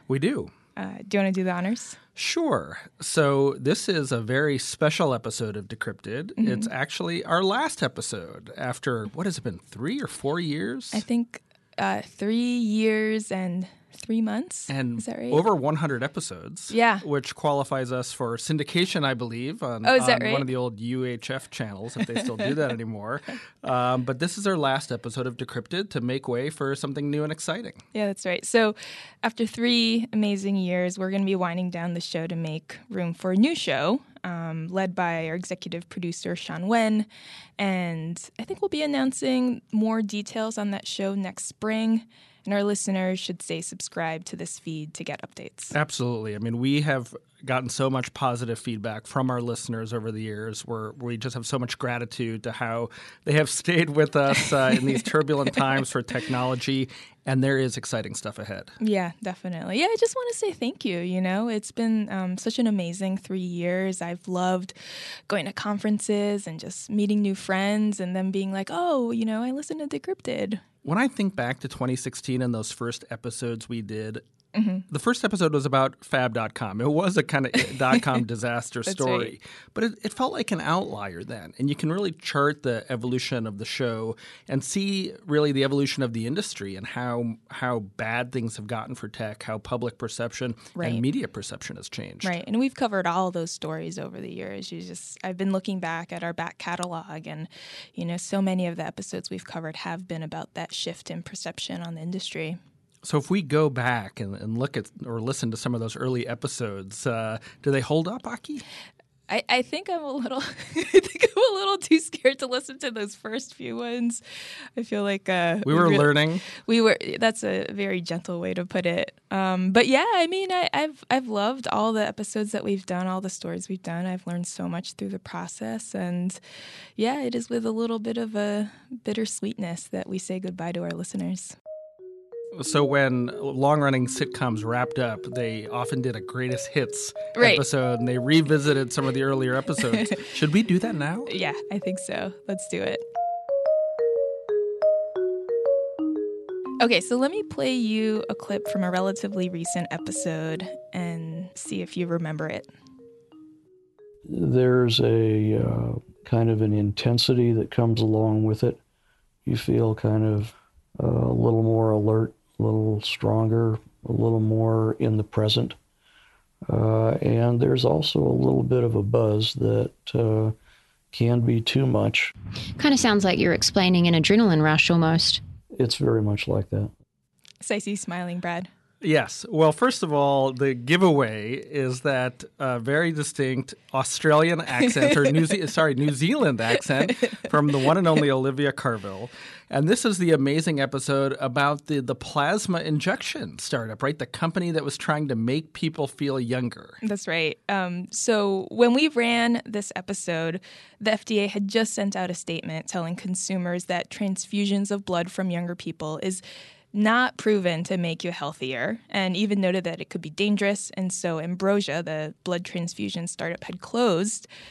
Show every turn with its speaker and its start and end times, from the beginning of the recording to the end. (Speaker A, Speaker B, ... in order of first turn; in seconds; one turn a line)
Speaker A: 0.1-0.5
Speaker B: 0.8-2.0
Speaker A: 2.2-11.0
Speaker B: 6.4-6.7
Speaker B: 10.9-15.4
Speaker A: 14.7-27.8
Speaker B: 16.7-17.0
Speaker B: 19.8-20.5
Speaker B: 27.9-37.1
Speaker B: 37.6-45.8
Speaker A: 45.7-58.7
Speaker B: 58.8-64.8
Speaker B: 65.3-70.6
Speaker A: 70.8-74.2
Speaker B: 74.5-74.8
Speaker A: 74.9-92.4
Speaker B: 78.9-79.3
Speaker B: 90.8-91.0
Speaker B: 92.2-102.6
Speaker A: 103.0-108.6
Speaker B: 109.3-114.2
Speaker B: 114.8-126.4
Speaker A: 115.7-116.5
Speaker B: 127.0-131.6
Speaker A: 132.5-141.3
Speaker B: 137.4-137.6
Speaker B: 141.3-143.0
Speaker B: 146.8-152.7
Speaker C: 154.3-158.8
Speaker C: 159.5-165.8
Speaker C: 166.7-170.6
Speaker C: 171.1-172.3
Speaker D: 172.8-175.4
Speaker C: 175.7-176.9
Speaker B: 177.6-178.7
Speaker A: 179.0-197.0
Speaker B: 197.0-214.5